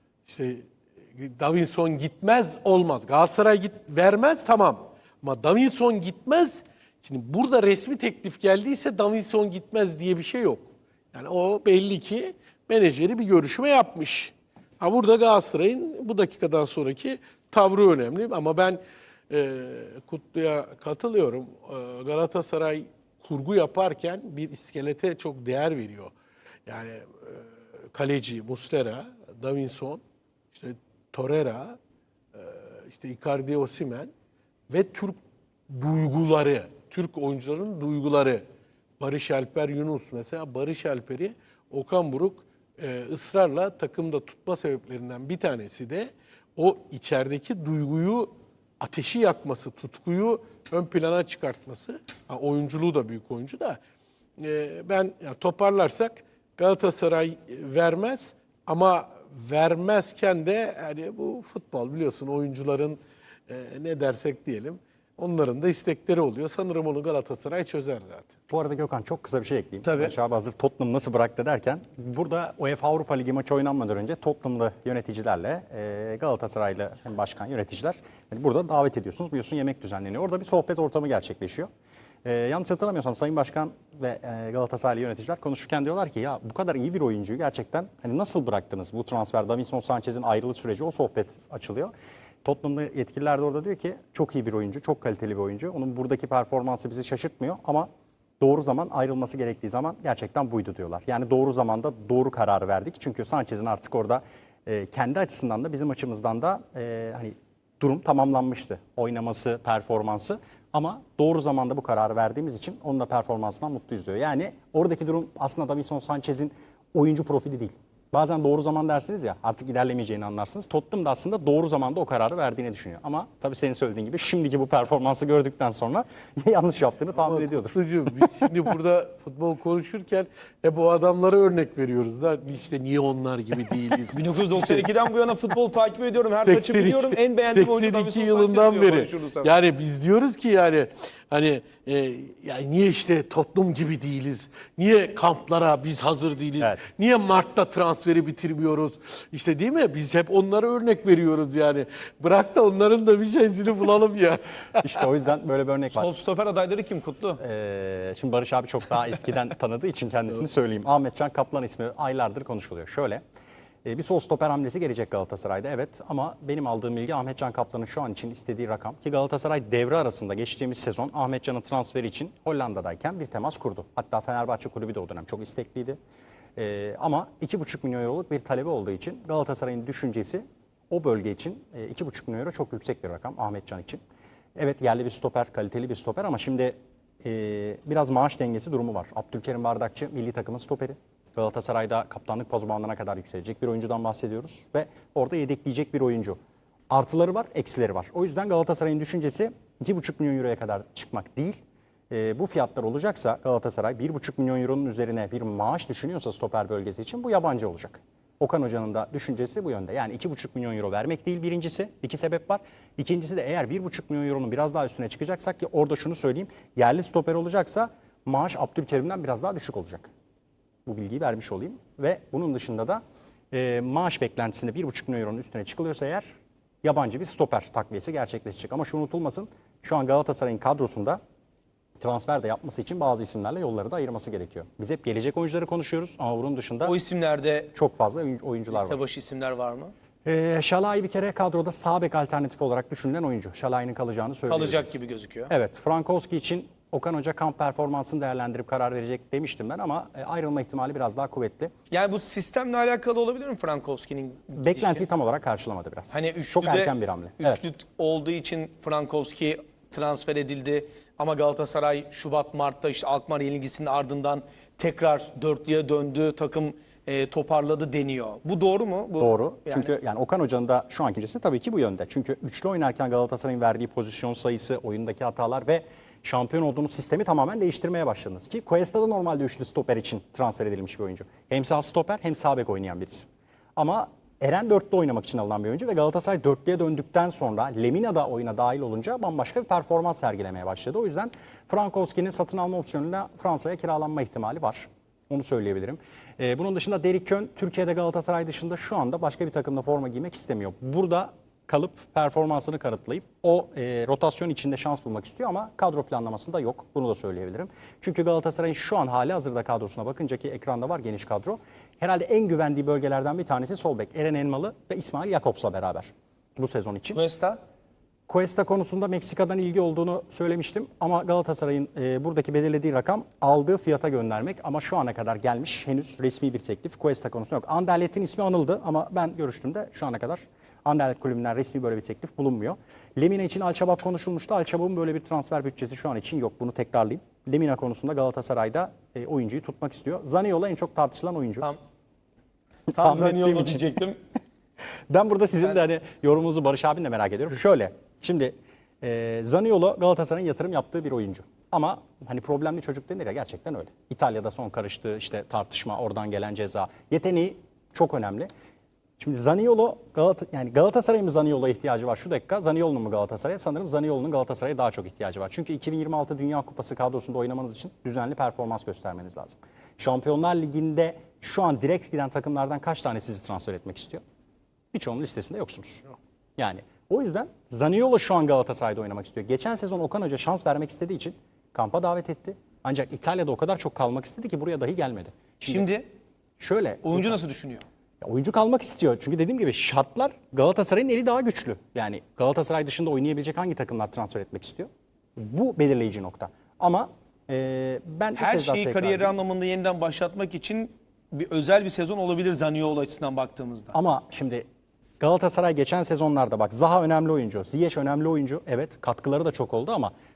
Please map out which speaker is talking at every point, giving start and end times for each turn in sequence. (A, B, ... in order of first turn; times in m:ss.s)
0:00.3-0:26.1 A
0:26.7-0:30.0 A
0:30.5-0:31.8 A
0:32.3-0:34.1 A
0:34.7-0:35.2 A
0:35.7-0:38.4 A
0:39.0-0:53.8 A
0:54.4-1:08.3 A
1:08.5-1:21.7 B
1:09.8-1:10.1 C
1:22.2-1:31.9 B
1:32.4-1:37.9 B
1:38.4-2:08.3 B
2:07.2-2:14.9 A
2:14.1-2:19.5 C
2:16.4-2:35.0 A
2:34.8-2:36.1 B
2:35.9-2:37.4 C
2:37.4-2:43.2 B
2:43.8-2:56.0 B
2:56.6-3:04.0 B
3:04.6-3:16.4 B
3:16.9-3:21.6 B
3:22.1-3:40.1 B
3:40.8-3:46.3 B
3:46.8-3:51.2 B
3:52.0-3:56.9 B
3:56.8-3:57.7 C
3:57.7-3:59.0 B
3:58.7-3:59.9 C
4:00.2-4:05.0 B
4:04.5-4:05.5 C
4:05.5-4:11.7 B
4:11.9-4:15.0 C
4:14.6-4:17.6 B
4:16.1-4:29.9 C
4:29.2-5:17.2 B
5:17.1-5:17.6 C
5:18.3-5:41.7 B
5:42.9-5:44.0 B
5:42.9-5:44.2 C
5:45.1-5:58.5 B
5:59.2-6:14.2 B
6:14.9-6:16.0 B
6:16.6-6:25.9 B
6:25.6-6:26.0 C
6:26.6-6:27.4 B
6:27.0-6:27.8 C
6:28.2-6:39.3 B
6:38.3-6:44.0 C
6:43.9-6:44.6 B
6:45.2-6:50.1 B